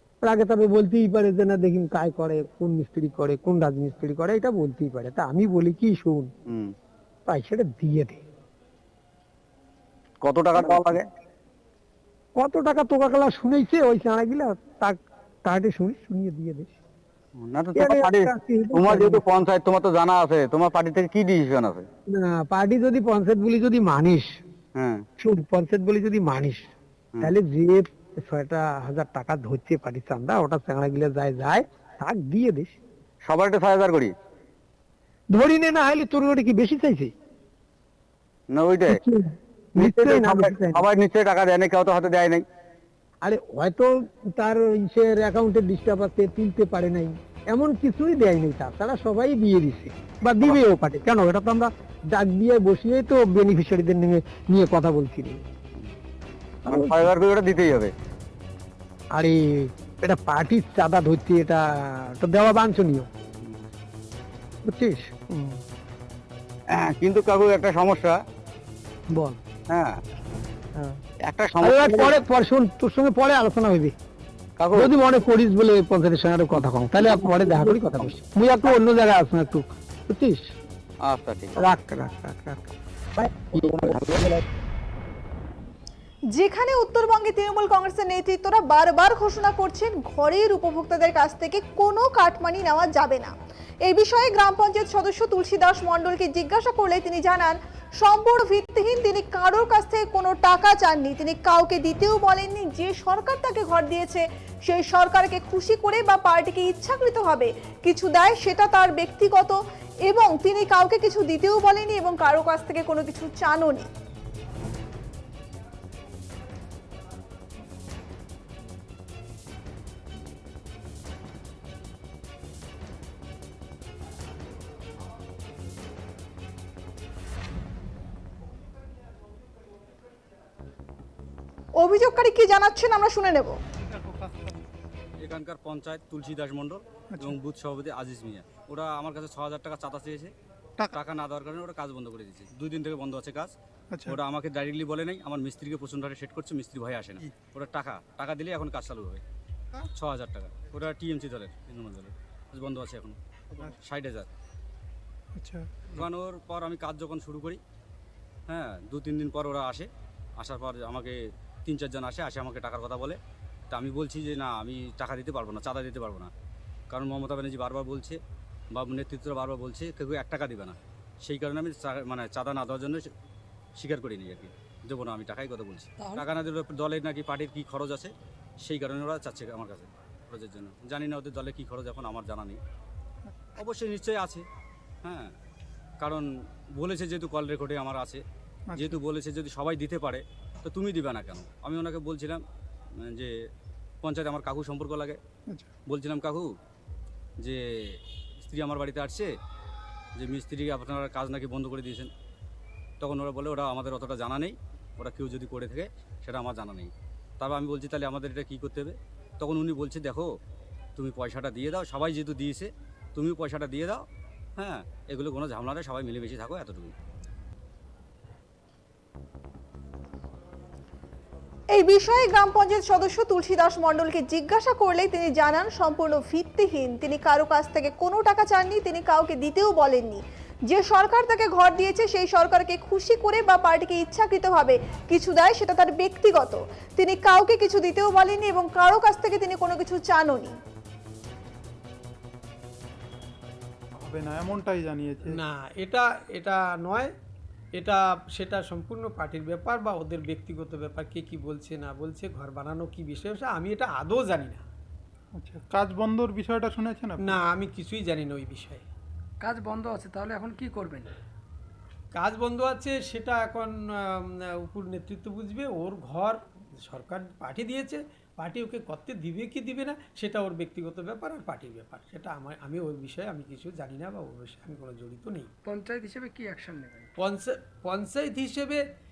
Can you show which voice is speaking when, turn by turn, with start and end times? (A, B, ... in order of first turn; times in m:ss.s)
0:00.2-0:06.3 A
0:06.5-0:06.7 B
0:07.3-0:08.2 A
0:10.2-0:11.0 B
0:10.5-0:11.0 A
0:12.4-0:16.7 A
0:17.4-0:21.8 B
0:17.7-0:19.2 A
0:22.1-0:24.3 A
0:24.8-0:25.0 B
0:25.2-0:26.6 A
0:27.2-0:32.8 A
0:33.2-0:34.1 B
0:35.3-0:37.1 A
0:38.5-0:39.0 B
0:38.9-0:40.8 A
0:40.9-0:42.4 B
0:43.2-0:55.4 A
0:56.6-0:57.1 A
0:57.1-0:57.9 B
0:59.1-1:03.1 A
1:04.6-1:05.6 A
1:06.9-1:08.1 B
1:09.1-1:09.4 A
1:11.3-1:12.1 B
1:11.6-1:13.9 A
1:14.7-1:20.4 A
1:21.0-1:21.5 B
1:21.6-1:23.9 A
1:26.3-1:33.3 C
1:33.8-1:53.9 C
2:11.8-2:13.6 C
2:13.8-2:14.5 D
2:15.2-2:20.3 E
2:20.9-2:23.5 E
2:23.9-2:24.2 D
2:24.0-2:29.2 E
2:30.0-2:33.2 E
2:33.8-2:34.3 E
2:35.3-2:36.0 D
2:35.9-2:37.6 E
2:38.5-2:39.9 E
2:40.4-2:41.1 E
2:41.6-2:43.2 E
2:43.7-2:46.3 E
2:46.9-2:48.2 E
2:48.7-2:53.0 E
2:53.8-3:02.6 E
3:03.6-3:04.4 E
3:05.0-3:05.3 E
3:06.8-3:08.2 E
3:08.7-3:09.0 D
3:08.8-3:12.4 E
3:13.0-3:13.3 E
3:14.0-3:15.2 E
3:15.9-3:16.5 E
3:17.4-3:19.3 E
3:20.2-3:22.1 E
3:23.0-3:30.3 E
3:31.0-3:34.0 E
3:34.6-3:36.9 E
3:41.7-4:00.6 C
4:04.0-4:05.3 D
4:05.2-4:07.1 F
4:07.8-4:14.6 F
4:15.4-4:17.2 D
4:17.2-4:18.8 F
4:19.4-4:21.1 G
4:22.1-4:35.5 F
4:35.6-4:37.1 G
4:37.2-4:38.8 F